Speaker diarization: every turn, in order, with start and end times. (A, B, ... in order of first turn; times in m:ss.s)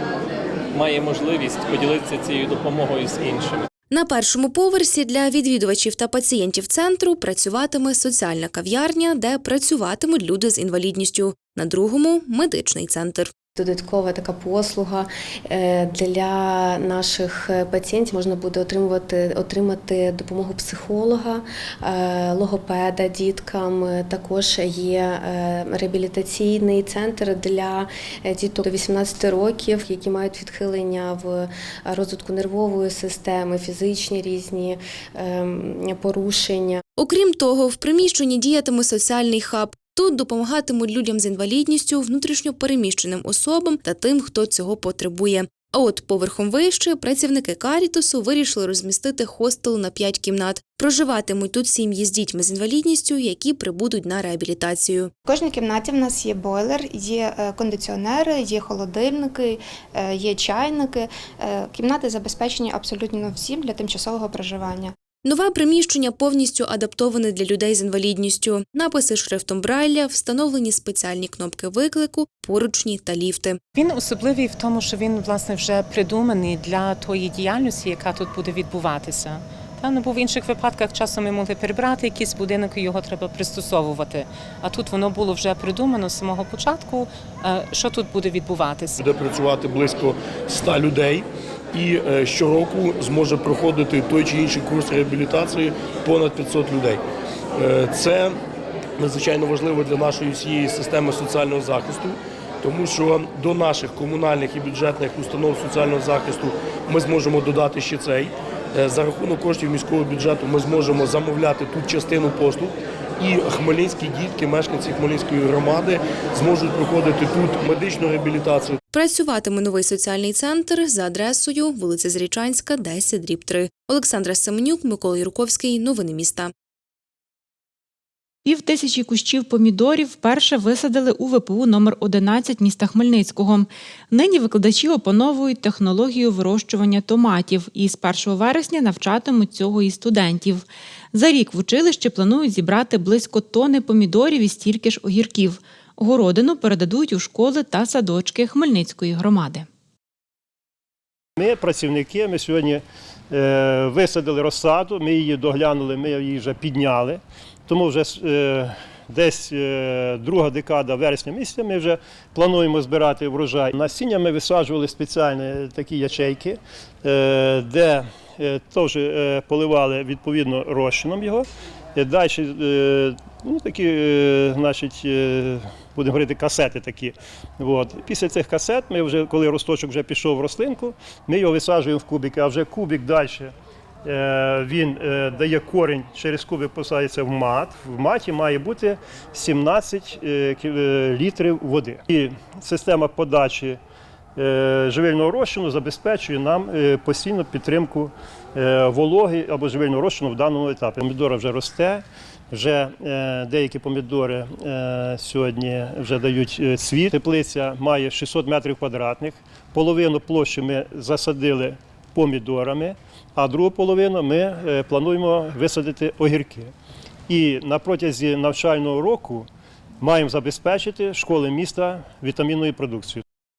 0:00.7-0:03.7 A
0:03.9-0:13.3 B
0:13.6-0:36.8 C
0:37.0-0:55.1 B
0:55.2-1:04.9 D
1:05.2-1:13.6 B
1:13.7-1:29.0 E
1:29.0-1:37.0 F
1:37.6-1:38.4 F
1:39.0-1:58.8 F
1:58.9-2:06.5 B
2:08.4-2:29.6 G
2:31.4-3:03.5 H
3:04.0-3:13.8 H
3:14.4-3:36.7 H
3:37.3-3:39.5 H
3:40.0-3:43.2 H